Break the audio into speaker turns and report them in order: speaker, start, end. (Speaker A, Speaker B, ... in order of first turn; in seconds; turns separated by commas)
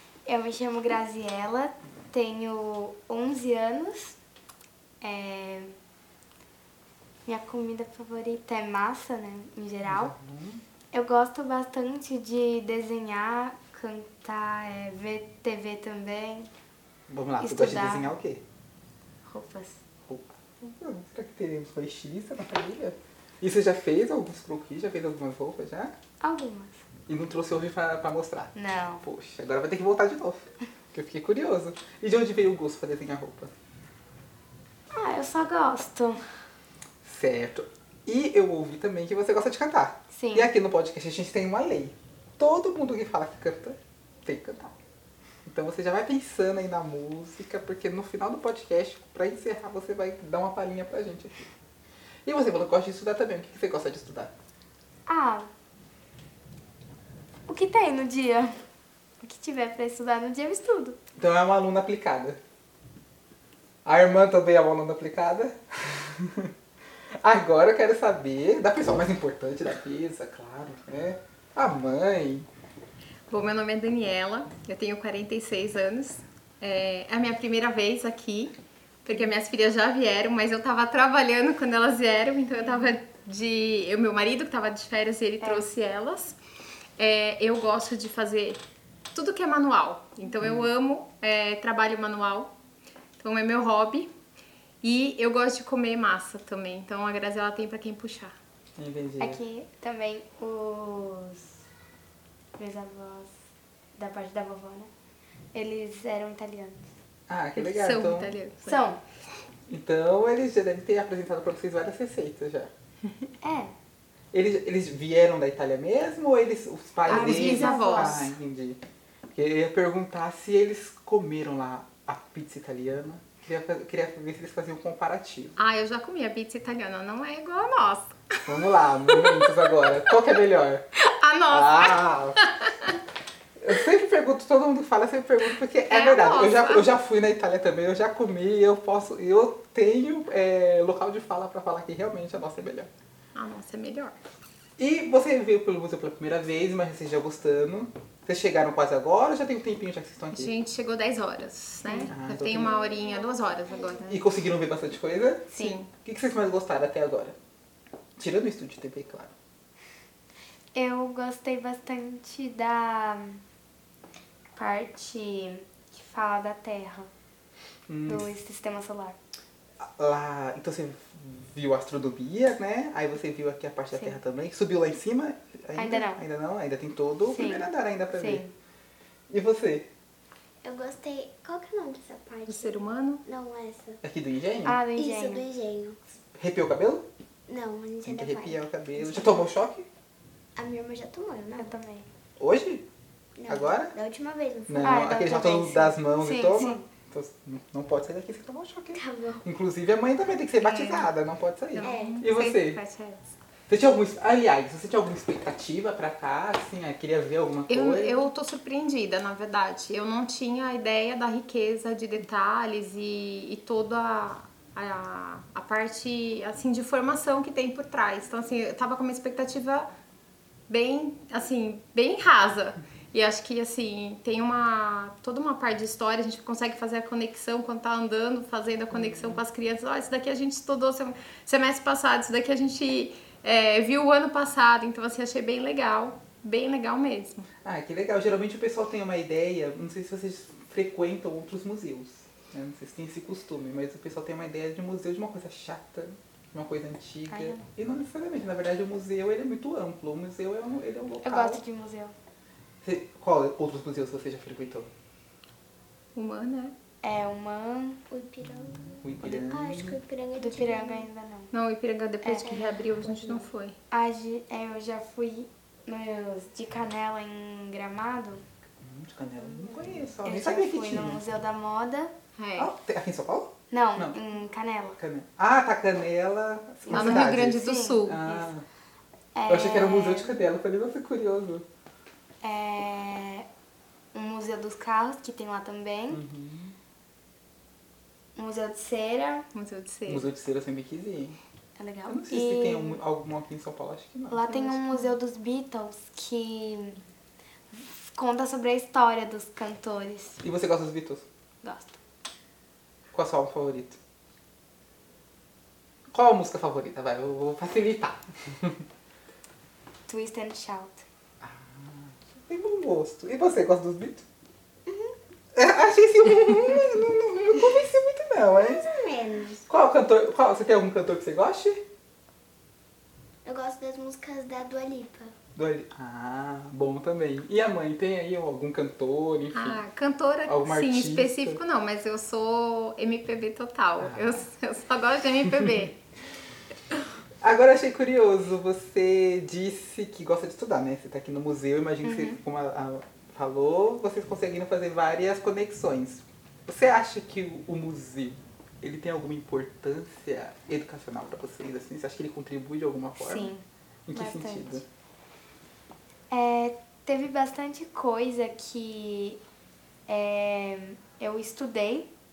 Speaker A: 0.2-4.2, Speaker A: 5.0-5.7, Speaker A: 7.2-10.1, Speaker B: 9.8-10.6, Speaker A: 10.9-16.5, Speaker B: 17.1-18.4, Speaker A: 17.4-18.1, Speaker A: 19.2-19.8, Speaker B: 20.1-25.9, Speaker A: 26.2-26.8, Speaker B: 27.1-33.5, Speaker A: 28.5-29.0, Speaker A: 34.9-36.2, Speaker B: 37.0-44.7, Speaker A: 40.1-40.5, Speaker B: 45.5-51.5, Speaker B: 52.2-54.3, Speaker A: 55.1-55.5, Speaker A: 57.5-58.6, Speaker A: 59.2-61.0, Speaker B: 61.1-62.4, Speaker B: 63.8-66.5, Speaker B: 67.2-72.5, Speaker C: 73.3-86.4, Speaker A: 85.4-85.7, Speaker C: 87.0-88.6, Speaker C: 89.1-92.5, Speaker B: 90.4-90.7, Speaker C: 93.2-94.1, Speaker C: 94.8-98.3, Speaker B: 98.8-99.4, Speaker A: 99.2-101.6, Speaker A: 102.5-103.3, Speaker A: 104.0-104.9, Speaker A: 105.5-106.9, Speaker B: 107.3-108.3, Speaker C: 107.5-108.8, Speaker A: 108.6-109.0, Speaker B: 109.7-112.7, Speaker A: 113.4-113.7, Speaker B: 114.3-118.8, Speaker C: 117.1-118.3, Speaker A: 117.1-118.3, Speaker B: 119.3-125.6, Speaker C: 125.6-128.4, Speaker B: 128.4-130.8, Speaker C: 129.1-129.7, Speaker C: 130.9-132.9, Speaker B: 131.5-132.4, Speaker B: 133.6-142.9, Speaker C: 135.8-136.9, Speaker C: 143.3-144.2, Speaker B: 144.8-150.5, Speaker C: 150.3-154.2, Speaker A: 151.8-152.1, Speaker B: 152.1-152.9, Speaker D: 152.6-154.1, Speaker B: 154.1-155.5, Speaker A: 155.5-155.8, Speaker C: 155.5-155.9, Speaker B: 156.0-157.3, Speaker B: 158.2-159.3, Speaker A: 160.7-163.4, Speaker A: 164.5-167.1, Speaker B: 167.9-168.3, Speaker A: 168.1-169.2, Speaker B: 169.8-178.4, Speaker A: 175.8-176.2, Speaker A: 177.2-178.5, Speaker B: 179.3-179.9, Speaker D: 180.6-184.0, Speaker C: 182.5-183.2, Speaker B: 184.0-184.8, Speaker A: 184.6-185.4, Speaker D: 184.9-186.0, Speaker B: 186.2-187.0, Speaker D: 187.5-189.5, Speaker B: 188.0-189.9, Speaker D: 190.6-191.7, Speaker A: 191.6-192.1, Speaker B: 192.4-192.8, Speaker D: 193.3-195.2, Speaker B: 193.5-193.9, Speaker B: 194.7-202.8, Speaker A: 194.8-196.8, Speaker D: 198.9-199.4, Speaker C: 200.6-201.1, Speaker C: 201.7-203.3, Speaker D: 201.8-202.2, Speaker B: 203.7-208.3, Speaker C: 207.7-219.9, Speaker C: 220.7-237.5, Speaker B: 228.9-229.4, Speaker B: 237.6-251.6, Speaker A: 247.3-247.7, Speaker A: 251.2-252.1, Speaker B: 252.8-254.9, Speaker C: 256.1-256.7, Speaker A: 257.0-258.0, Speaker D: 258.1-261.1, Speaker B: 258.9-260.0, Speaker A: 260.4-261.5, Speaker C: 261.5-263.8, Speaker A: 262.2-262.5, Speaker D: 262.4-263.5, Speaker A: 263.9-268.4, Speaker B: 268.8-271.2, Speaker A: 270.2-272.1, Speaker C: 272.4-272.7, Speaker B: 272.6-274.2, Speaker A: 273.7-275.0, Speaker B: 275.0-278.6, Speaker A: 276.9-278.1, Speaker C: 276.9-278.4, Speaker A: 279.3-280.4, Speaker B: 279.5-281.6, Speaker A: 282.4-283.4, Speaker A: 284.1-286.2, Speaker B: 286.1-286.8, Speaker A: 288.4-289.4, Speaker C: 289.5-290.3, Speaker B: 290.1-291.4, Speaker A: 291.8-293.0, Speaker B: 292.1-294.4, Speaker A: 294.3-297.0, Speaker C: 294.5-295.1, Speaker A: 297.7-300.4, Speaker B: 300.4-301.2, Speaker A: 301.6-302.0, Speaker B: 303.1-304.0, Speaker B: 306.1-308.8, Speaker A: 310.1-311.0, Speaker B: 311.4-314.2, Speaker D: 314.9-315.1, Speaker B: 315.5-318.9, Speaker D: 318.6-319.6, Speaker B: 319.7-321.8, Speaker D: 323.4-325.3, Speaker B: 325.6-329.8, Speaker C: 329.5-335.9, Speaker B: 330.4-331.6, Speaker B: 334.0-334.4, Speaker B: 335.5-335.9, Speaker B: 337.4-353.5, Speaker A: 342.0-342.4, Speaker A: 353.2-354.8, Speaker B: 354.1-354.8, Speaker A: 356.3-359.4, Speaker A: 360.1-362.1